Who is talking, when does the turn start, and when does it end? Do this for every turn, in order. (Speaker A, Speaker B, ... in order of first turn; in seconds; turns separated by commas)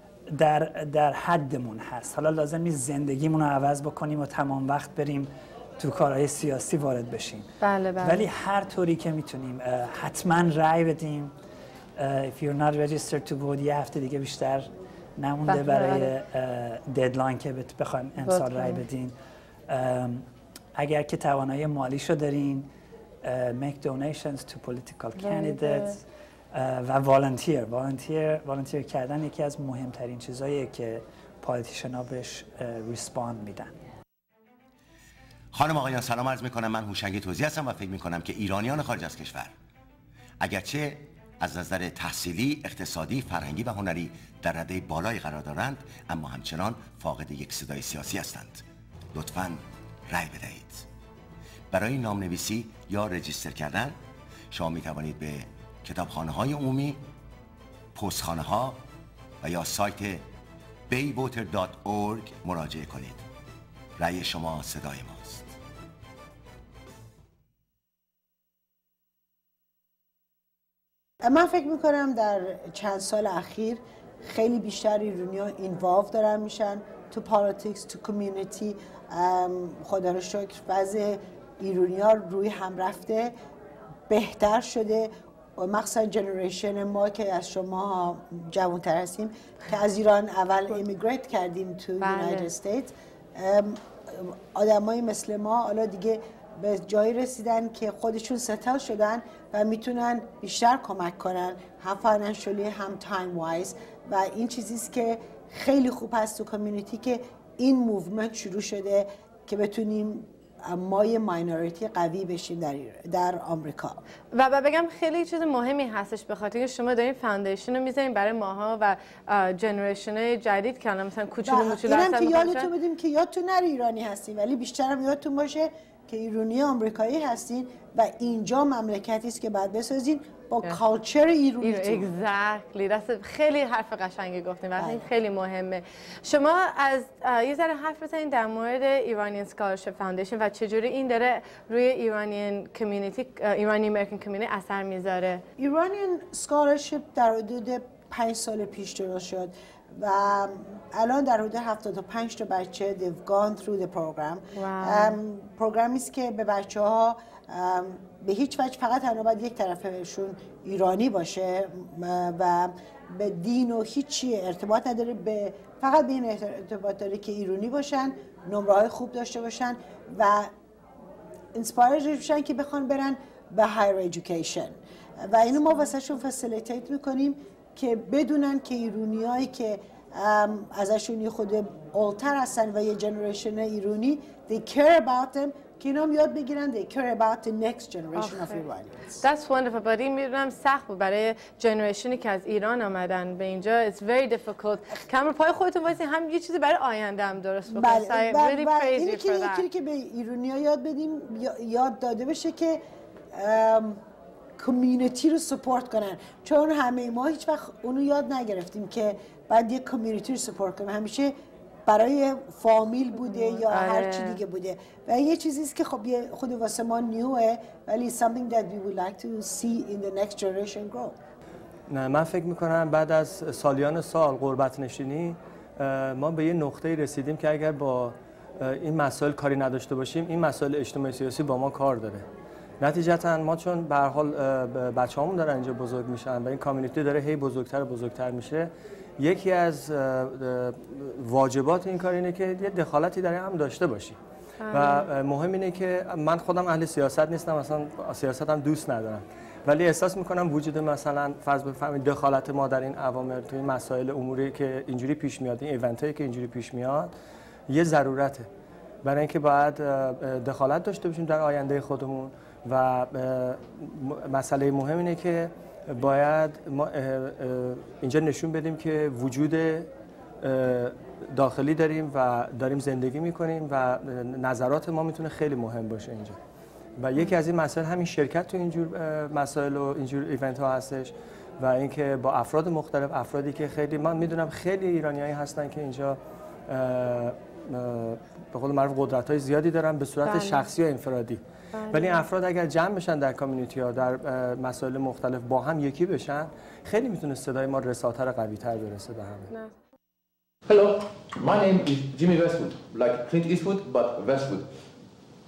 Speaker A: 0.3-11.3, Speaker B: 7.6-8.2, Speaker A: 11.9-19.1, Speaker B: 15.5-16.1, Speaker B: 18.2-18.8, Speaker A: 19.7-22.7, Speaker A: 23.2-33.7, Speaker B: 25.2-26.0, Speaker C: 35.5-39.5, Speaker C: 40.4-50.9, Speaker C: 51.7-54.0, Speaker C: 54.5-57.0, Speaker C: 57.9-58.8, Speaker C: 59.4-60.2, Speaker C: 60.9-63.2, Speaker C: 64.0-65.5, Speaker D: 71.2-83.3, Speaker D: 84.1-114.0, Speaker B: 92.0-92.5, Speaker B: 114.3-122.7, Speaker D: 121.4-132.1, Speaker B: 131.6-145.4, Speaker D: 134.8-135.1, Speaker D: 145.6-170.5, Speaker B: 154.6-155.2, Speaker D: 171.6-189.2, Speaker B: 188.1-188.6, Speaker B: 189.2-199.7, Speaker D: 197.7-202.8, Speaker D: 203.3-204.0, Speaker D: 204.6-211.3, Speaker D: 211.9-221.1, Speaker B: 213.1-214.4, Speaker E: 221.9-232.3, Speaker E: 232.8-244.2, Speaker B: 244.6-245.1, Speaker E: 244.7-257.1, Speaker E: 257.7-258.5, Speaker E: 259.0-269.9, Speaker E: 270.4-276.4, Speaker E: 277.0-299.5, Speaker B: 290.2-290.7, Speaker B: 291.7-292.3, Speaker B: 299.5-299.8, Speaker F: 300.6-304.7